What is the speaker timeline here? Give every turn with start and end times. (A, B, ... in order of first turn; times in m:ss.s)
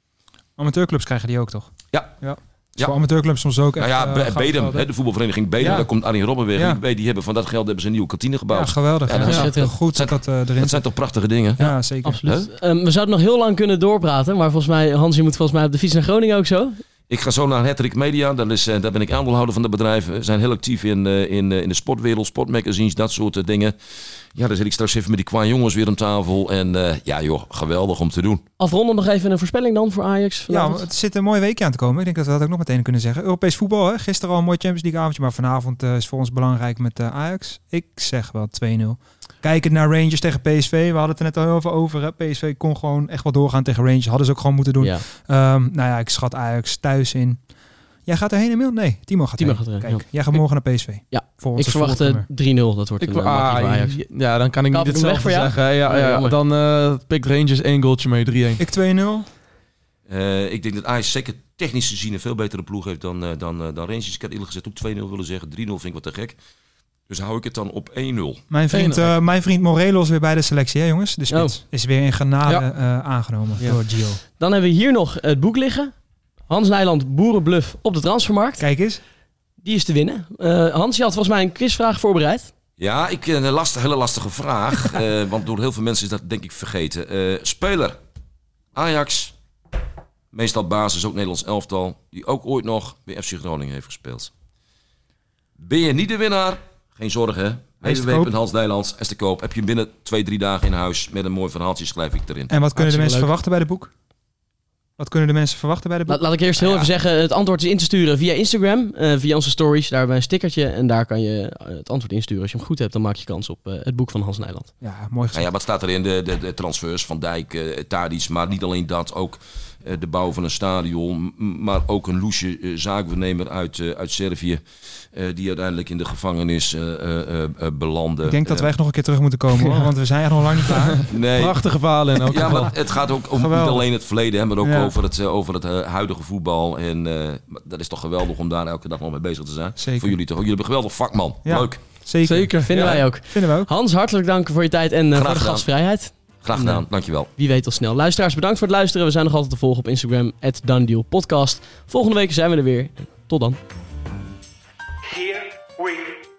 0:00.6-0:04.8 A
0:01.9-0:02.2 B
0:03.8-0:12.5 B
0:05.6-0:05.9 A
0:06.5-0:06.8 A
0:08.5-0:10.8 A
0:09.1-0:09.8 C
0:09.2-0:09.5 D
0:11.6-0:12.2 A
0:12.0-0:16.8 C
0:17.1-0:28.4 B
0:28.6-0:30.9 C
0:30.5-0:47.5 A
0:44.8-0:45.0 C
0:48.0-0:52.2 A
0:49.4-0:54.0 C
0:53.0-0:58.6 D
0:54.7-0:56.4 C
0:58.6-0:59.3 A
1:00.1-1:06.4 B
1:07.1-1:08.4 B
1:08.5-1:14.2 A
1:08.7-1:09.1 D
1:11.3-1:11.6 C
1:13.6-1:15.9 C
1:16.5-1:18.6 C
1:18.6-1:19.0 A
1:19.6-1:22.5 C
1:22.8-1:28.0 B
1:28.7-1:29.3 B
1:30.3-1:34.3 B
1:35.6-1:42.5 B
1:37.8-1:38.3 A
1:42.5-1:43.9 A
1:42.8-1:43.3 C
1:45.0-1:46.2 A
1:46.1-1:54.7 C
1:46.6-1:46.9 B
1:54.8-1:55.4 A
1:55.3-2:08.7 B
2:08.2-2:11.0 A
2:09.5-2:09.9 D
2:10.6-2:12.7 D
2:11.0-2:11.6 B
2:12.2-2:21.8 B
2:13.4-2:13.8 A
2:14.6-2:14.9 A
2:19.8-2:20.1 A
2:21.4-2:23.7 A
2:22.2-2:22.7 D
2:22.6-2:33.6 C
2:25.1-2:25.7 B
2:26.4-2:27.3 B